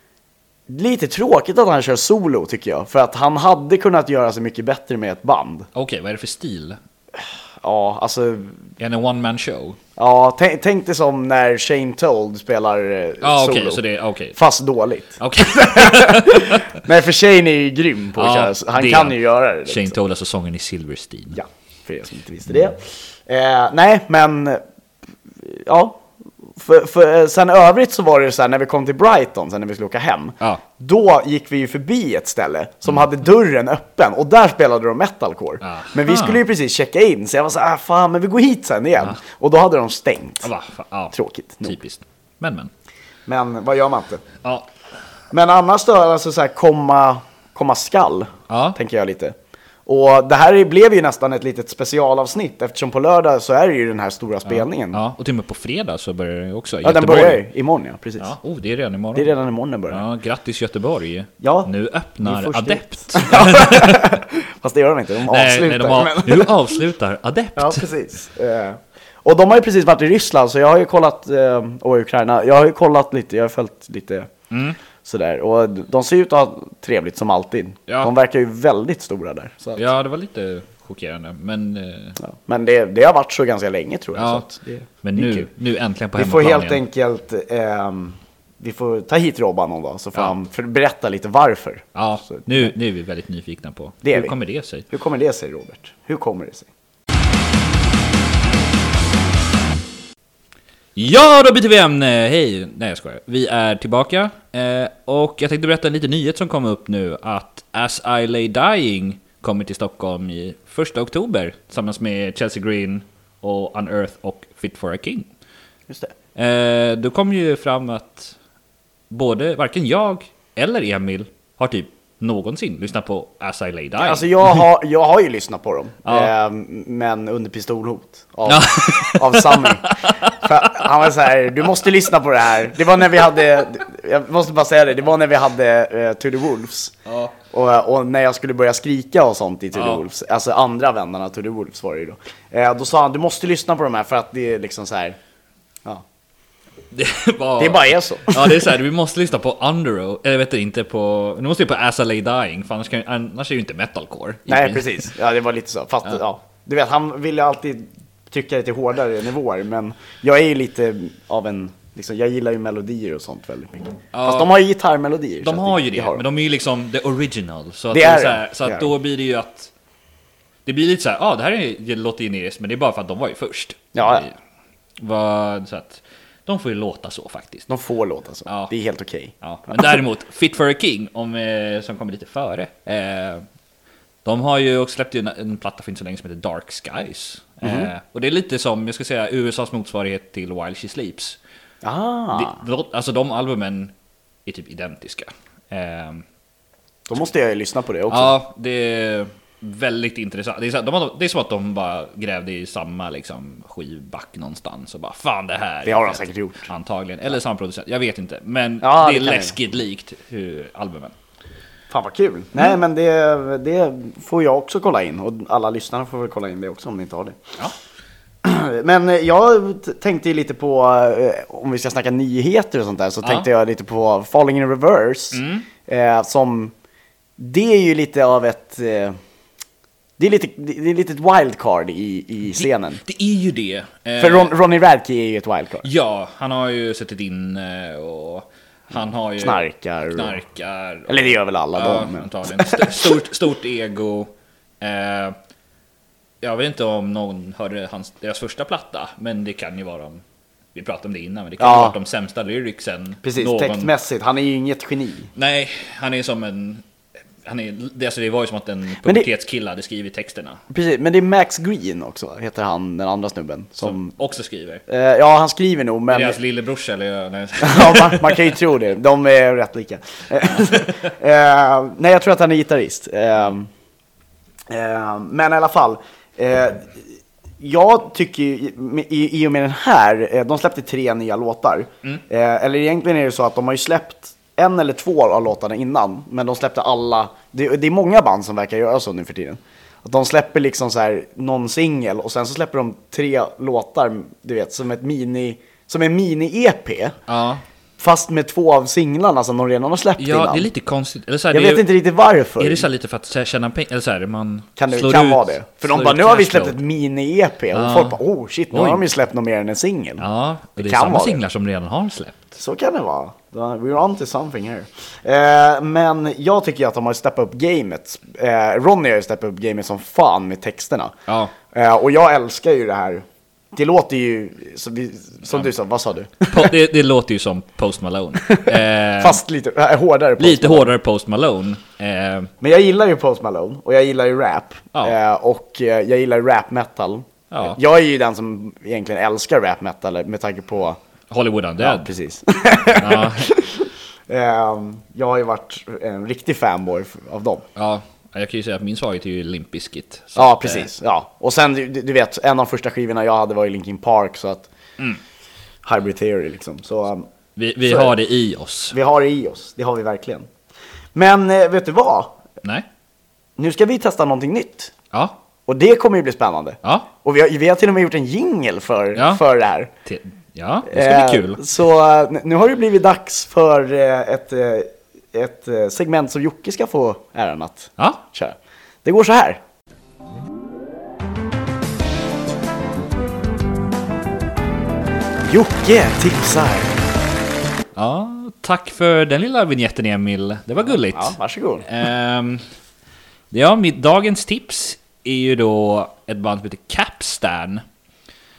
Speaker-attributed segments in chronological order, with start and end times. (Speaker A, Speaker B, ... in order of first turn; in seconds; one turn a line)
Speaker A: 0.7-5.7
Speaker B: 5.8-6.8
Speaker A: 7.6-8.6
Speaker B: 8.8-9.8
Speaker A: 10.0-13.8
Speaker B: 13.2-14.4
Speaker A: 14.4-20.0
Speaker B: 15.2-16.8
Speaker B: 18.2-21.4
Speaker A: 21.4-24.6
Speaker A: 25.4-26.0
Speaker A: 26.6-40.5
Speaker B: 35.6-36.4
Speaker B: 40.4-42.7
Speaker A: 41.1-41.8
Speaker A: 43.3-44.2
Speaker B: 44.4-44.7
Speaker A: 45.3-49.3
Speaker B: 48.5-48.8
Speaker A: 49.9-55.0
Speaker B: 54.5-57.5
Speaker A: 56.8-58.3
Speaker B: 58.2-59.4
Speaker A: 59.1-60.0
Speaker B: 59.9-64.2
Speaker A: 61.4-66.7
Speaker B: 65.2-67.9
Speaker A: 67.6-74.3
Speaker B: 74.5-74.8
Speaker A: 75.0-79.8
Speaker B: 79.8-82.2
Speaker A: 82.2-85.5
Speaker B: 84.2-84.5
Speaker B: 85.0-86.8
Speaker A: 86.2-92.5
Speaker B: 92.0-94.9
Speaker A: 94.0-94.4
Speaker A: 94.9-96.7
Speaker B: 101.0-115.3
Speaker A: 115.9-116.1
Speaker B: 116.4-118.3
Speaker B: 119.1-124.7
Speaker A: 124.0-136.9
Speaker B: 126.0-126.3
Speaker B: 128.5-131.1
Speaker B: 137.1-137.4
Speaker A: 137.5-145.2
Speaker B: 139.7-140.1
Speaker B: 146.9-155.1
Speaker A: 147.6-148.7
Speaker A: 154.5-166.2
Speaker B: 164.1-164.5
Speaker B: 165.4-169.7
Speaker A: 167.9-168.9
Speaker B: 170.7-174.3
Speaker A: 173.9-174.3
Speaker B: 175.0-177.7
Speaker A: 177.7-180.0
Speaker B: 178.4-178.7
Speaker B: 179.4-183.4
Speaker B: 184.2-191.4
Speaker A: 187.6-187.9
Speaker A: 191.8-192.6
Speaker B: 192.3-193.9
Speaker B: 194.5-196.2
Speaker A: 197.1-198.4
Speaker B: 198.1-211.2
Speaker A: 205.8-206.7
Speaker A: 208.8-209.6
Speaker A: 211.9-217.4
Speaker A: 218.4-226.7
Speaker B: 223.2-223.5
Speaker B: 225.3-225.7
Speaker A: 227.4-229.2
Speaker A: 230.2-233.0
Speaker B: 232.5-234.6
Speaker A: 234.2-235.9
Speaker B: 235.8-244.3
Speaker A: 239.4-240.4
Speaker A: 241.1-243.2
Speaker B: 244.8-245.4
Speaker B: 246.4-250.2
Speaker B: 250.7-253.9
Speaker A: 251.6-252.0
Speaker A: 253.2-255.3
Speaker B: 255.3-256.9
Speaker B: 257.4-260.6
Speaker A: 259.0-259.3
Speaker A: 260.7-264.1
Speaker B: 263.8-264.8
Speaker A: 264.9-266.4
Speaker B: 266.1-268.6
Speaker A: 267.6-273.7
Speaker B: 270.5-271.0
Speaker A: 274.7-276.9
Speaker A: 277.6-297.1
Speaker B: 297.3-297.6
Speaker A: 298.0-300.7
Speaker B: 300.2-301.9
Speaker A: 301.5-302.9
Speaker B: 302.6-306.8
Speaker A: 304.8-310.2
Speaker B: 307.7-308.2
Speaker B: 308.7-309.1
Speaker B: 310.2-312.6
Speaker A: 310.8-311.4
Speaker A: 312.6-321.1
Speaker B: 321.3-321.6
Speaker A: 321.7-326.7
Speaker B: 326.5-329.4
Speaker A: 328.4-330.9
Speaker B: 330.4-332.5
Speaker A: 332.6-341.0
Speaker B: 337.5-337.8
Speaker B: 341.3-342.1
Speaker A: 341.8-347.6
Speaker B: 342.9-343.6
Speaker B: 347.8-350.9
Speaker A: 350.4-354.7
Speaker A: 355.9-357.2
Speaker B: 357.6-359.0
Speaker A: 357.8-358.2
Speaker A: 358.9-360.5
Speaker A: 361.1-362.4
Speaker A: 363.6-364.9
Speaker B: 365.1-365.4
Speaker A: 365.7-369.9
Speaker B: 366.8-367.1
Speaker B: 369.1-369.4
Speaker B: 370.1-371.6
Speaker A: 370.9-379.6
Speaker B: 378.0-378.2
Speaker A: 385.5-386.9
Speaker B: 388.0-392.6
Speaker A: 391.1-391.9
Speaker B: 393.5-397.8